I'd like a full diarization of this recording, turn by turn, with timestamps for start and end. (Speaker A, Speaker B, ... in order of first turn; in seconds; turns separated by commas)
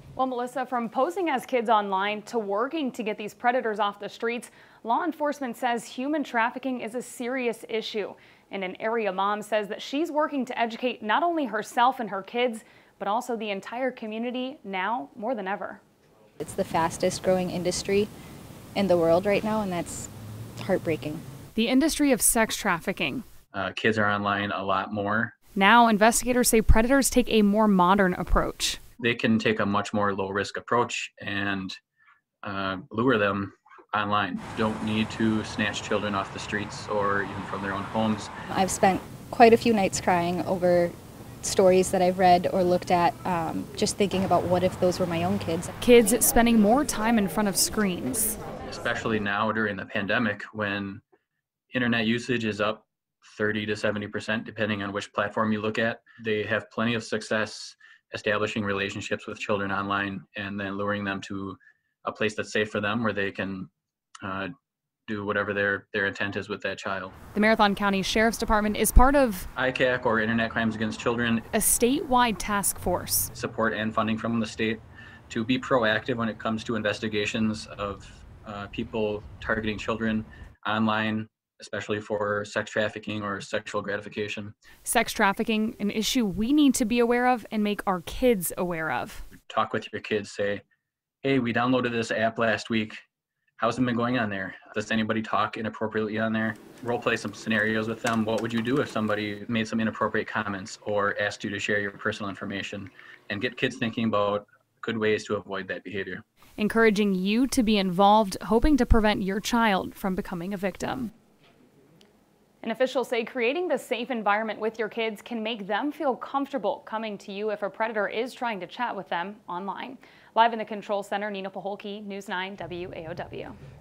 Speaker A: 0.1-15.8, Speaker B: 16.4-18.1, Speaker B: 18.8-21.2, Speaker A: 21.6-23.2, Speaker C: 23.5-25.4, Speaker A: 25.6-28.8, Speaker C: 29.0-31.8, Speaker C: 32.4-38.3, Speaker B: 38.5-45.7, Speaker A: 45.8-48.4, Speaker C: 48.7-51.0, Speaker C: 51.7-63.7, Speaker C: 64.2-64.5, Speaker C: 65.1-67.2, Speaker A: 67.3-69.5, Speaker C: 69.6-71.5, Speaker A: 71.5-73.3, Speaker C: 73.3-84.5, Speaker A: 84.8-89.2, Speaker C: 89.4-90.6, Speaker C: 91.2-93.0, Speaker C: 93.6-106.2, Speaker A: 106.6-111.1, Speaker A: 112.6-123.6